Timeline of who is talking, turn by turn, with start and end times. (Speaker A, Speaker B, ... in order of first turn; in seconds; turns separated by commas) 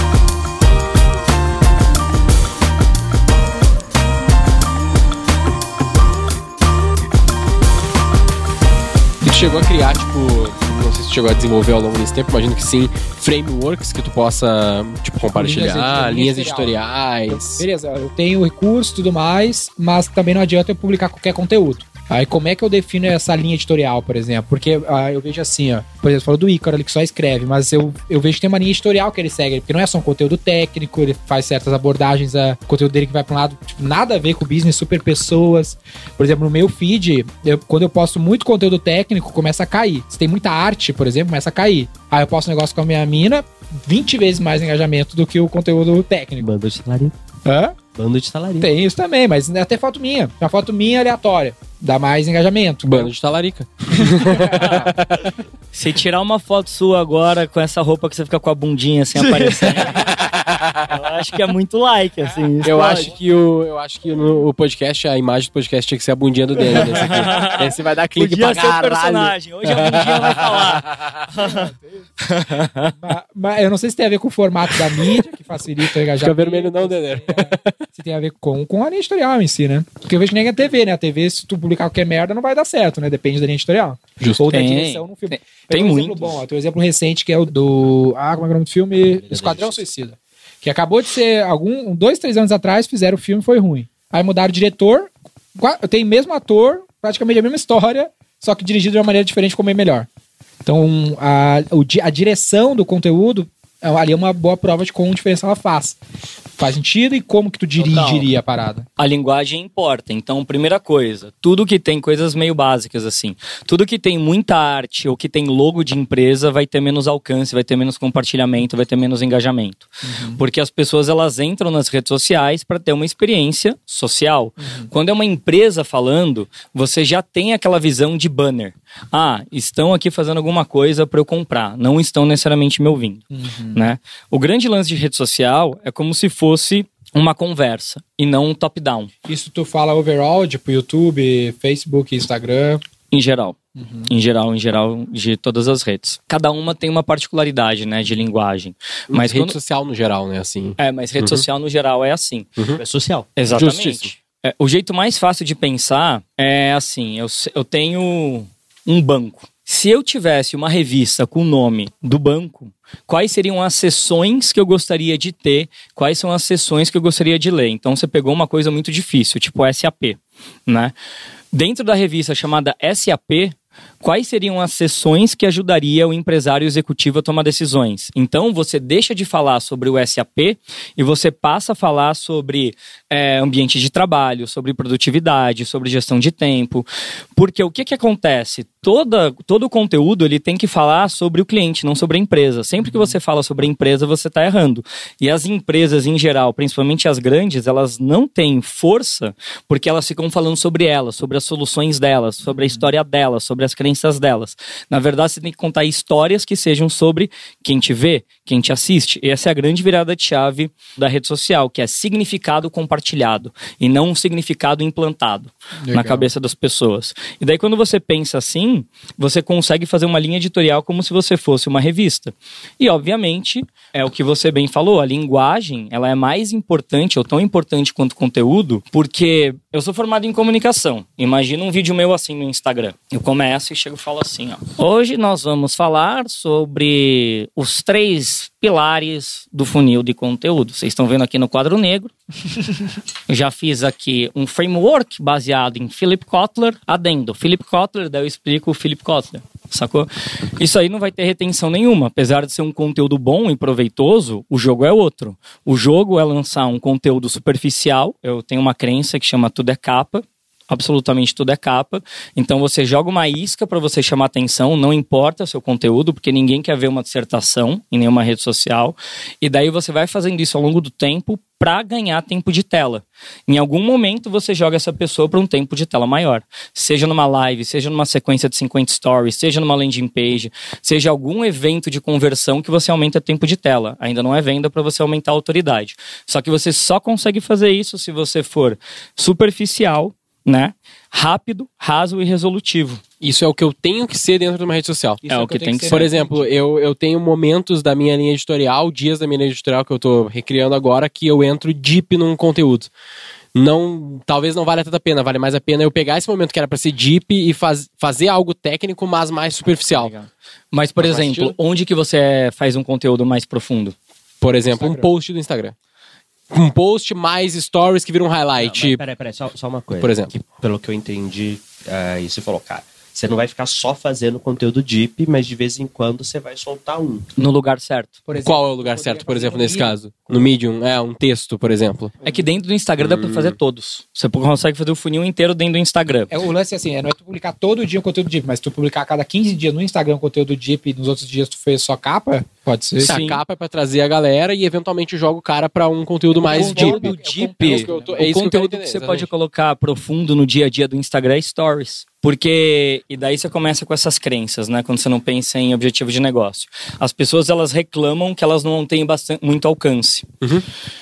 Speaker A: 9.2-17.6, Speaker B: 15.3-16.8, Speaker C: 15.6-15.8, Speaker B: 17.3-46.5, Speaker C: 46.4-47.1, Speaker B: 47.5-47.8, Speaker C: 47.9-48.7, Speaker B: 48.6-53.1, Speaker A: 52.9-55.3, Speaker B: 54.1-54.6, Speaker D: 54.5-54.9, Speaker D: 55.7-60.2, Speaker A: 60.0-60.7, Speaker D: 60.9-63.1, Speaker A: 62.6-71.0, Speaker D: 66.6-73.0, Speaker B: 71.4-72.0, Speaker B: 73.0-100.1, Speaker A: 76.2-77.7, Speaker A: 84.2-84.4, Speaker D: 84.5-86.4, Speaker C: 89.0-89.8, Speaker B: 100.6-106.0, Speaker B: 106.6-108.8, Speaker D: 107.8-108.3, Speaker D: 109.0-139.1, Speaker B: 120.0-120.4, Speaker B: 124.6-124.9, Speaker B: 133.3-133.9, Speaker B: 139.2-142.8, Speaker D: 143.1-149.6, Speaker B: 143.8-144.1, Speaker A: 149.1-151.4, Speaker D: 150.8-152.5, Speaker C: 152.8-153.3, Speaker D: 153.4-170.9, Speaker A: 153.5-154.1, Speaker D: 171.5-242.1, Speaker B: 192.8-193.2, Speaker B: 215.8-216.3, Speaker D: 243.3-293.0, Speaker A: 293.2-295.2, Speaker B: 295.2-296.5, Speaker D: 295.3-296.1, Speaker A: 295.9-302.9, Speaker A: 303.5-310.1, Speaker D: 309.9-313.9, Speaker A: 311.0-311.5, Speaker A: 314.4-315.7, Speaker B: 314.7-315.1, Speaker A: 316.5-319.0, Speaker C: 318.6-327.3, Speaker A: 320.0-320.3, Speaker D: 327.4-328.2, Speaker B: 328.3-330.0, Speaker A: 328.4-332.1, Speaker D: 332.2-336.3, Speaker A: 333.0-333.6, Speaker B: 336.3-343.2, Speaker D: 343.0-343.4, Speaker A: 343.0-349.3, Speaker B: 346.3-348.3, Speaker D: 346.4-360.3